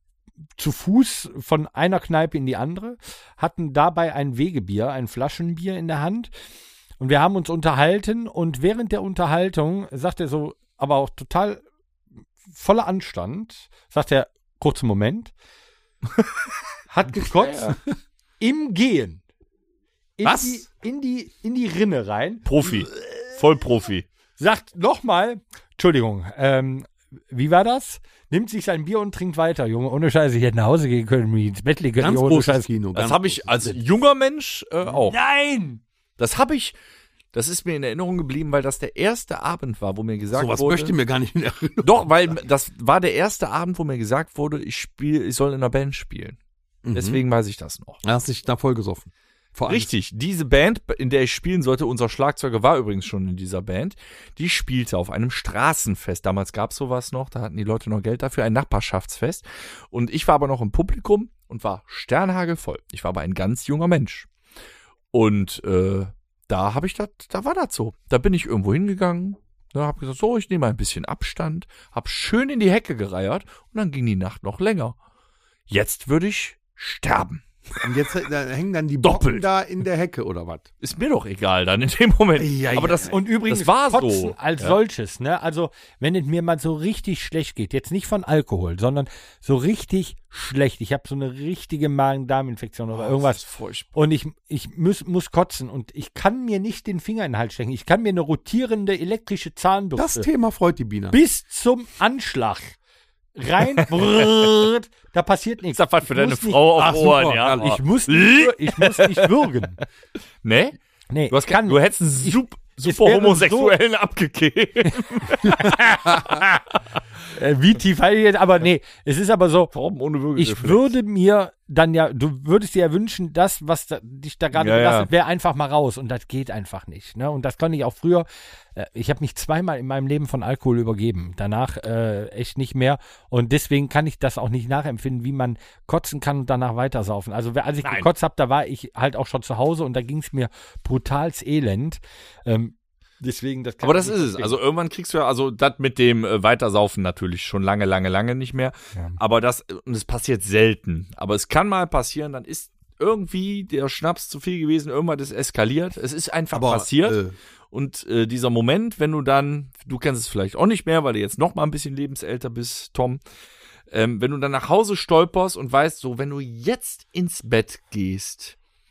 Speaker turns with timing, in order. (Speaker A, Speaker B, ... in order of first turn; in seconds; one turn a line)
Speaker A: 0.6-6.3
Speaker A: 7.0-11.6
Speaker A: 12.5-15.3
Speaker A: 16.9-17.8
Speaker A: 18.4-19.2
Speaker A: 20.2-22.5
Speaker B: 20.2-20.6
Speaker C: 22.5-24.1
Speaker A: 24.4-32.7
Speaker B: 32.0-33.8
Speaker C: 33.0-35.2
Speaker A: 35.1-35.8
Speaker C: 36.2-36.8
Speaker C: 37.3-40.9
Speaker B: 40.3-42.1
Speaker C: 41.8-46.4
Speaker B: 46.9-47.2
Speaker C: 46.9-48.0
Speaker B: 48.0-49.9
Speaker C: 49.7-64.3
Speaker C: 65.1-75.0
Speaker C: 75.7-77.9
Speaker B: 77.8-80.7
Speaker C: 79.0-79.5
Speaker C: 80.8-84.8
Speaker B: 82.4-83.2
Speaker A: 83.1-93.4
Speaker C: 92.9-93.9
Speaker A: 93.9-100.3
Speaker B: 100.0-101.2
Speaker A: 101.1-102.8
Speaker A: 103.4-106.6
Speaker C: 105.7-109.3
Speaker B: 106.8-107.8
Speaker A: 107.6-109.8
Speaker C: 110.4-110.8
Speaker A: 111.1-113.8
Speaker C: 111.3-116.5
Speaker A: 115.4-116.4
Speaker A: 117.3-119.7
Speaker C: 119.7-120.9
Speaker A: 120.4-144.6
Speaker C: 124.5-125.1
Speaker C: 143.8-163.2
Speaker B: 156.5-157.3
Speaker C: 163.9-168.6